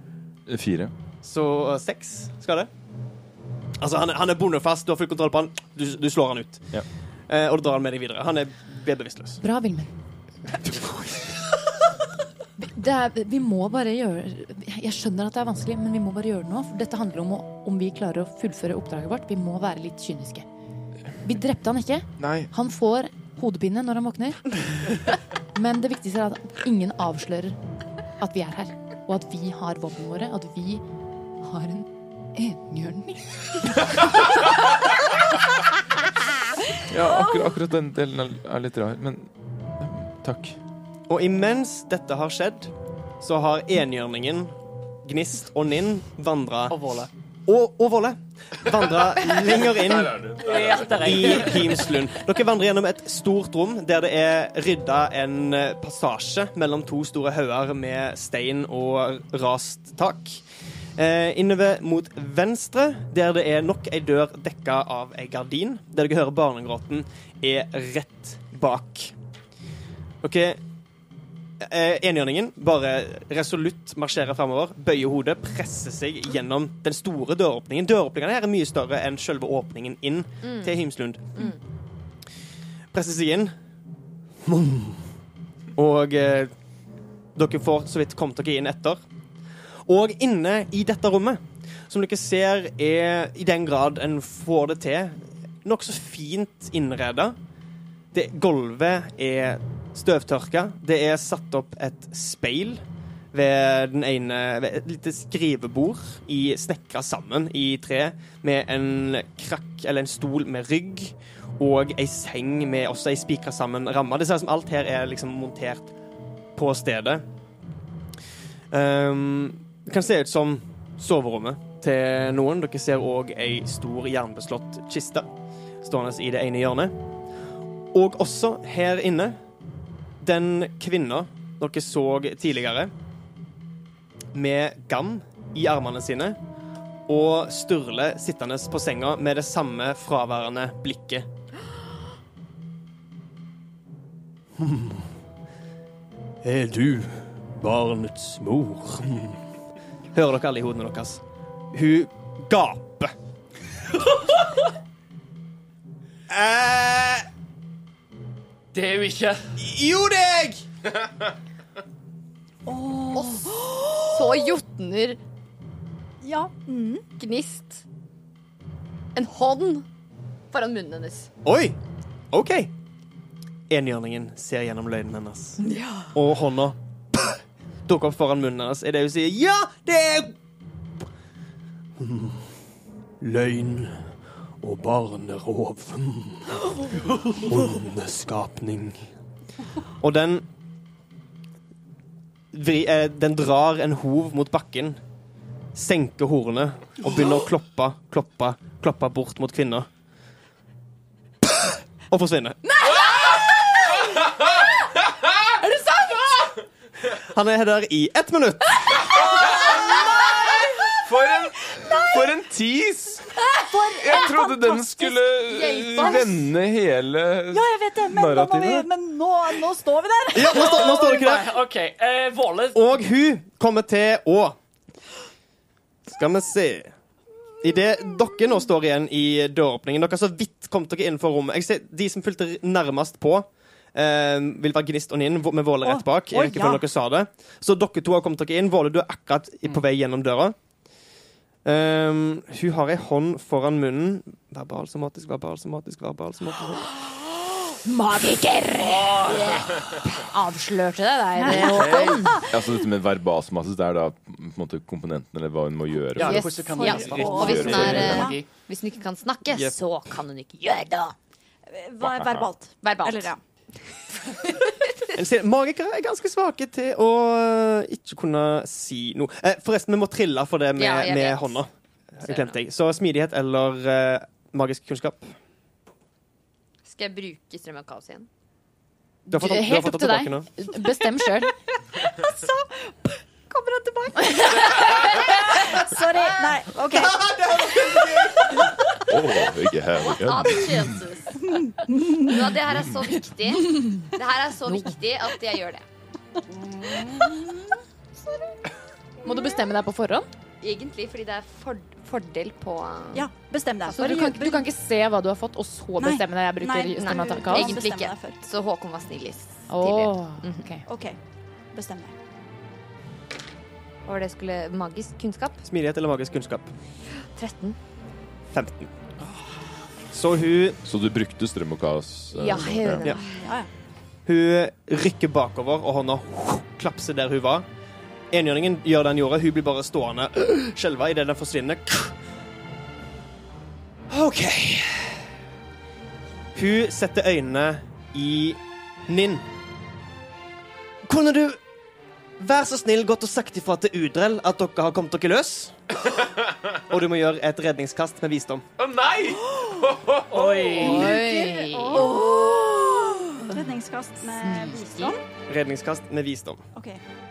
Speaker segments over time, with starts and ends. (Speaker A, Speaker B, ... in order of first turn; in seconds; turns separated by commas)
Speaker A: 0.5-0.9, Speaker B: 1.2-2.7, Speaker B: 3.8-9.4, Speaker C: 9.4-9.9, Speaker B: 10.6-11.3, Speaker C: 12.6-20.5, Speaker C: 21.2-24.6, Speaker A: 22.2-22.5, Speaker C: 25.5-27.6, Speaker C: 28.2-30.8, Speaker C: 31.4-34.4, Speaker A: 36.9-40.6, Speaker B: 41.1-46.8, Speaker D: 46.7-47.1, Speaker B: 47.5-60.4, Speaker A: 49.7-51.5, Speaker D: 50.3-51.9, Speaker B: 61.0-69.1, Speaker B: 70.2-70.6, Speaker B: 71.6-81.5, Speaker E: 80.4-80.7, Speaker B: 82.9-83.5, Speaker B: 84.5-85.0, Speaker B: 85.8-86.5, Speaker B: 87.4-89.0, Speaker B: 89.9-97.4, Speaker B: 98.1-102.8, Speaker B: 103.3-115.9, Speaker B: 116.6-117.2, Speaker B: 118.7-125.3, Speaker B: 125.8-126.9, Speaker B: 127.9-129.4, Speaker B: 130.2-132.9, Speaker B: 134.3-136.4, Speaker B: 137.1-141.3, Speaker B: 144.6-145.1, Speaker B: 146.4-149.4, Speaker B: 150.1-151.2, Speaker B: 151.7-153.1, Speaker B: 156.3-157.3, Speaker D: 158.7-159.5, Speaker B: 159.6-160.6, Speaker F: 162.7-164.6, Speaker E: 163.1-165.2, Speaker F: 166.2-167.1, Speaker E: 167.2-167.8, Speaker E: 169.2-169.9, Speaker E: 170.5-171.3, Speaker B: 171.4-171.8, Speaker B: 172.3-172.7, Speaker B: 173.7-175.6, Speaker F: 175.7-175.9, Speaker B: 176.1-180.3, Speaker B: 182.0-182.4, Speaker B: 183.2-184.0, Speaker B: 184.6-189.0, Speaker B: 190.0-190.4, Speaker B: 192.5-195.0, Speaker B: 195.8-199.9, Speaker B: 201.5-202.6, Speaker C: 202.9-204.6, Speaker C: 205.6-206.5, Speaker B: 207.1-209.1, Speaker A: 209.4-209.7, Speaker F: 209.6-210.6, Speaker A: 211.0-218.9, Speaker F: 211.8-212.2, Speaker F: 213.5-216.4, Speaker F: 217.5-220.9, Speaker B: 220.3-221.5, Speaker D: 220.6-222.8, Speaker B: 222.7-224.6, Speaker B: 226.1-226.9, Speaker B: 227.6-240.6, Speaker F: 235.8-236.9, Speaker B: 241.7-246.9, Speaker C: 247.7-252.4, Speaker D: 248.8-249.6, Speaker F: 251.4-252.7, Speaker A: 252.4-256.6, Speaker D: 256.1-258.5, Speaker C: 256.2-256.5, Speaker F: 256.8-258.4, Speaker E: 256.8-261.1, Speaker A: 257.2-258.3, Speaker B: 259.5-259.8, Speaker F: 261.7-263.4, Speaker A: 262.0-262.5, Speaker E: 262.8-263.3, Speaker E: 264.3-265.1, Speaker B: 265.1-275.3, Speaker E: 270.8-271.6, Speaker E: 272.2-272.6, Speaker E: 276.9-278.3, Speaker C: 279.3-281.5, Speaker B: 279.3-280.5, Speaker F: 282.1-287.2, Speaker E: 283.8-284.6, Speaker C: 284.2-285.1, Speaker B: 286.9-288.4, Speaker A: 289.1-291.0, Speaker E: 289.9-291.6, Speaker F: 291.4-292.4, Speaker E: 292.1-295.9, Speaker C: 293.8-294.1, Speaker C: 294.7-294.9, Speaker C: 299.2-300.3, Speaker E: 300.6-303.3, Speaker F: 303.1-304.7, Speaker C: 303.9-307.8, Speaker F: 306.0-308.4, Speaker E: 307.0-310.7, Speaker C: 309.7-310.8, Speaker F: 310.9-311.2, Speaker F: 311.7-312.2, Speaker E: 314.1-315.7, Speaker B: 315.7-316.7, Speaker E: 317.4-317.8, Speaker B: 318.5-318.9, Speaker B: 320.1-320.8, Speaker A: 320.8-323.1, Speaker E: 322.3-323.2, Speaker F: 323.2-323.7, Speaker B: 324.3-327.6, Speaker B: 328.3-332.1, Speaker B: 334.1-335.3, Speaker B: 336.6-339.4, Speaker B: 341.1-341.6, Speaker B: 342.4-345.8, Speaker B: 346.7-348.6, Speaker A: 348.8-350.9, Speaker D: 350.3-351.2, Speaker F: 350.8-355.2, Speaker C: 350.8-352.1, Speaker C: 354.4-355.2, Speaker B: 355.5-356.6, Speaker F: 356.7-357.0